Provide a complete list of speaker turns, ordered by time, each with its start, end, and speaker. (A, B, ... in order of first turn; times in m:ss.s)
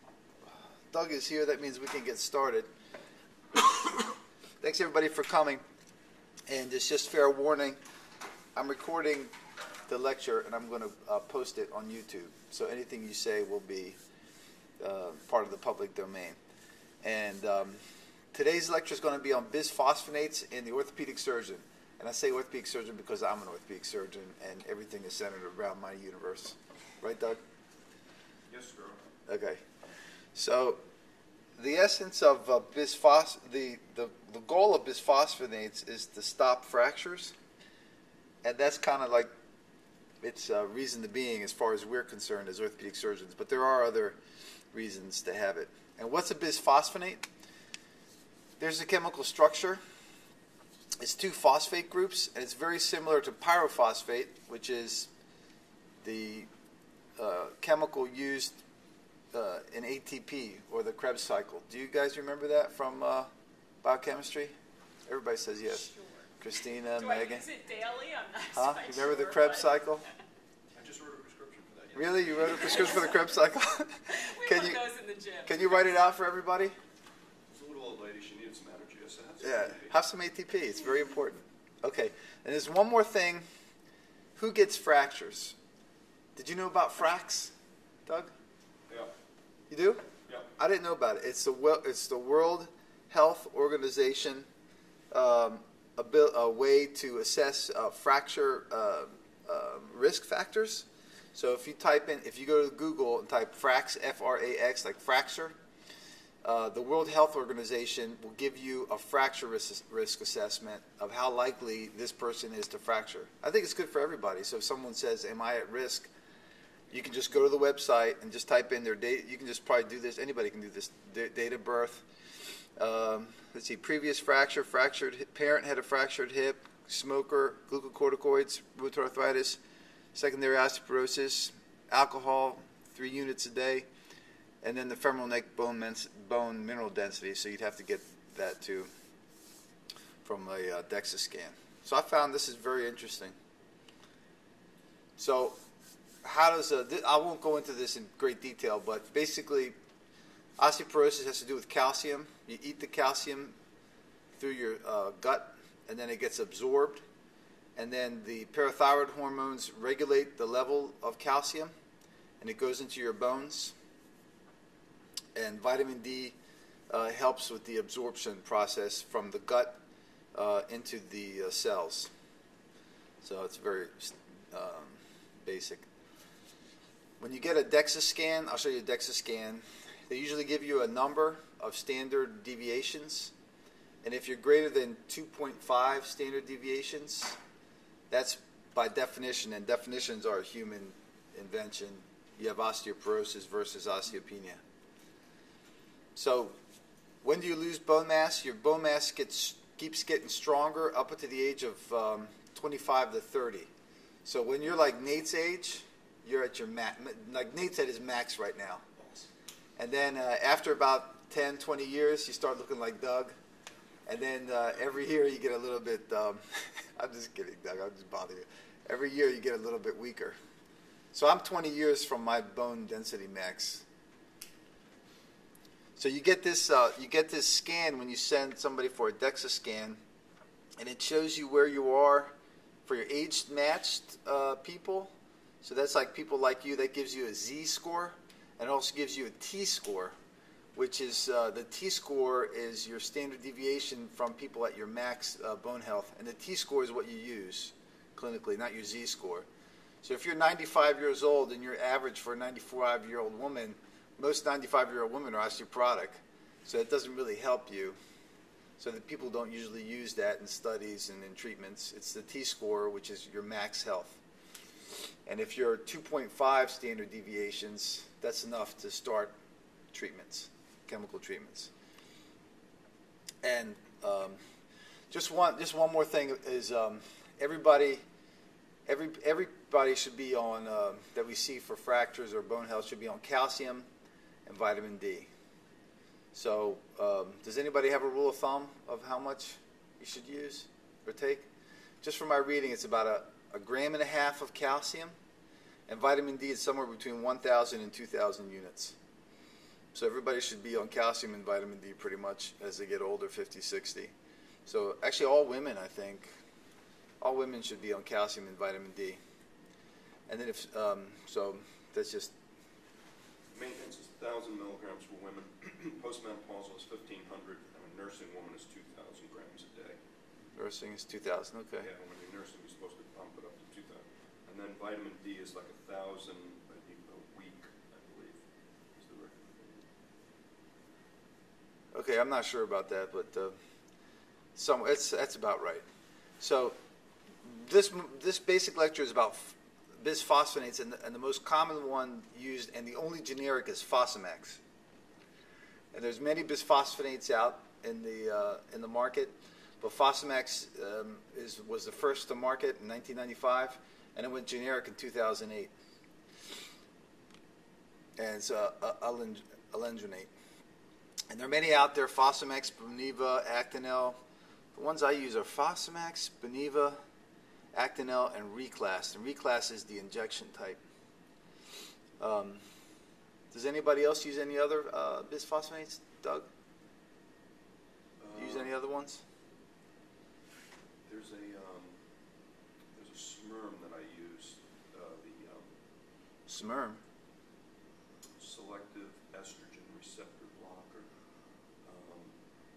0:00.9-0:02.7 A
0:03.5-0:05.6 A
0:06.5-0:07.8 A
0:08.5-0:09.3 A
0:09.9-0:14.0 A
0:14.8-0:16.4 A
0:17.0-0:17.8 A
0:18.3-0:27.4 A
0:28.5-0:29.1 B
0:29.3-0:29.6 A
0:30.3-0:30.8 A
0:31.6-0:37.3 A
0:38.4-0:39.3 A
0:40.2-0:44.2 A
0:44.7-0:47.2 A
0:48.6-0:49.8 A
0:51.0-0:55.1 A
0:56.0-0:56.5 A
0:57.2-0:58.6 A
0:59.3-1:03.3 A
1:03.8-1:04.5 A
1:05.1-1:07.4 A
1:05.9-1:06.3 C
1:06.9-1:09.9 C
1:08.5-1:10.1 A
1:10.7-1:12.9 B
1:11.9-1:14.8 A
1:12.5-1:13.5 C
1:14.0-1:16.1 C
1:15.4-1:16.7 A
1:17.5-1:19.9 B
1:19.4-1:23.4 A
1:24.4-1:25.6 A
1:26.4-1:27.5 A
1:28.0-1:28.3 A
1:29.7-1:30.0 A
1:30.6-1:34.5 A
1:35.1-1:45.5 A
1:46.4-1:56.1 A
1:56.9-2:02.0 A
2:02.8-2:09.6 A
2:10.1-2:13.9 A
2:14.6-2:18.9 A
2:20.2-2:23.4 A
2:25.2-2:25.6 A
2:26.2-2:29.7 A
2:30.6-2:33.5 A
2:34.4-2:37.0 A
2:37.8-2:41.7 A
2:42.4-2:43.7 A
2:45.3-2:46.3 A
2:46.9-2:49.8 A
2:50.3-2:52.1 A
2:53.2-2:55.9 A
2:57.2-3:03.3 A
3:04.0-3:07.4 A
3:08.1-3:14.6 A
3:16.2-3:16.6 A
3:17.2-3:23.7 A
3:24.2-3:28.8 A
3:29.0-3:29.3 B
3:29.8-3:33.3 A
3:34.0-3:40.4 A
3:41.1-3:43.8 A
3:46.0-3:50.0 A
3:50.8-3:52.3 A
3:52.8-3:55.1 A
3:55.6-4:00.1 A
4:00.7-4:09.4 A
4:10.0-4:18.0 A
4:18.8-4:24.2 A
4:25.2-4:29.3 A
4:29.9-4:31.7 A
4:33.4-4:34.4 A
4:35.1-4:38.0 A
4:38.8-4:43.9 A
4:44.4-4:45.3 A
4:46.3-4:51.5 A
4:52.0-4:55.2 A
4:55.9-4:59.0 A
4:59.9-5:04.1 A
5:04.6-5:06.3 A
5:07.2-5:09.2 A
5:10.3-5:12.3 A
5:13.5-5:20.0 B
5:20.6-5:21.9 A
5:21.8-5:28.4 B
5:28.9-5:29.9 B
5:31.9-5:33.5 A
5:34.6-5:35.8 A
5:36.4-5:36.7 A
5:37.4-5:44.6 A
5:45.9-5:55.7 A
5:58.2-6:00.3 A
6:01.3-6:04.2 A
6:04.7-6:07.0 A
6:07.7-6:10.8 A
6:12.2-6:12.6 A
6:13.5-6:16.5 A
6:18.2-6:18.7 B
6:18.3-6:19.2 A
6:21.0-6:22.0 B
6:22.9-6:25.7 B
6:26.5-6:27.0 A
6:28.4-6:31.1 B
6:31.8-6:32.4 B